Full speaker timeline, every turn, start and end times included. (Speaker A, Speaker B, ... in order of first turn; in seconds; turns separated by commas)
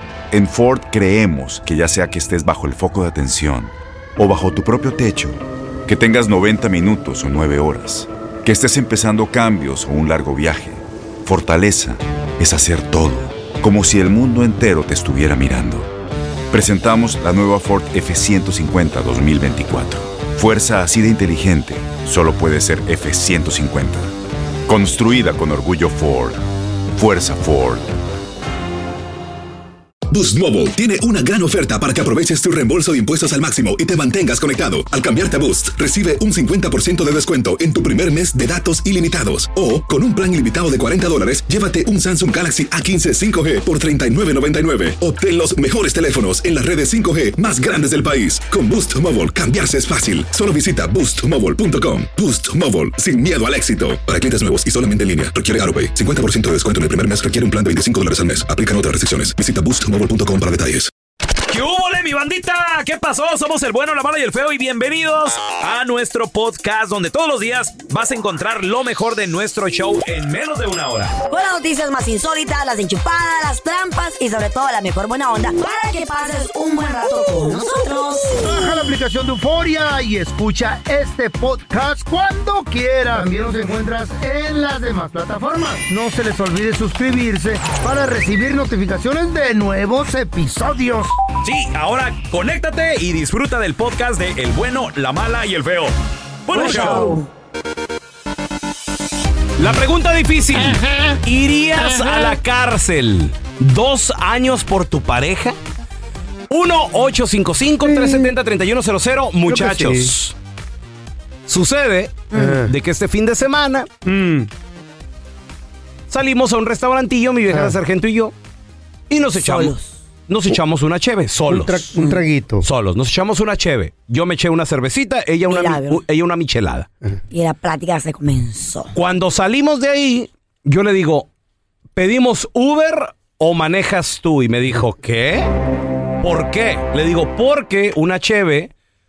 Speaker A: 0.3-15.9, Speaker A: 16.5-24.1, Speaker A: 24.6-26.4, Speaker A: 26.9-27.9, Speaker B: 30.1-60.9, Speaker C: 61.5-71.1, Speaker D: 71.3-78.6, Speaker E: 78.4-91.1, Speaker C: 91.4-95.9, Speaker C: 96.5-97.2, Speaker D: 96.5-97.3, Speaker E: 96.6-97.2, Speaker C: 99.6-105.5, Speaker E: 100.5-101.2, Speaker E: 101.8-102.3, Speaker C: 106.5-110.3, Speaker E: 107.8-108.3, Speaker E: 109.5-110.1, Speaker C: 111.5-113.9, Speaker D: 112.3-112.6, Speaker E: 112.3-112.7, Speaker E: 114.0-114.5, Speaker C: 116.1-118.3, Speaker E: 117.5-117.8, Speaker C: 119.1-119.7, Speaker D: 119.3-120.0, Speaker C: 120.3-121.9, Speaker E: 121.5-122.6, Speaker C: 122.6-126.9, Speaker D: 125.5-126.0, Speaker D: 127.3-128.9, Speaker C: 128.9-131.3, Speaker C: 131.9-135.5, Speaker C: 136.2-138.7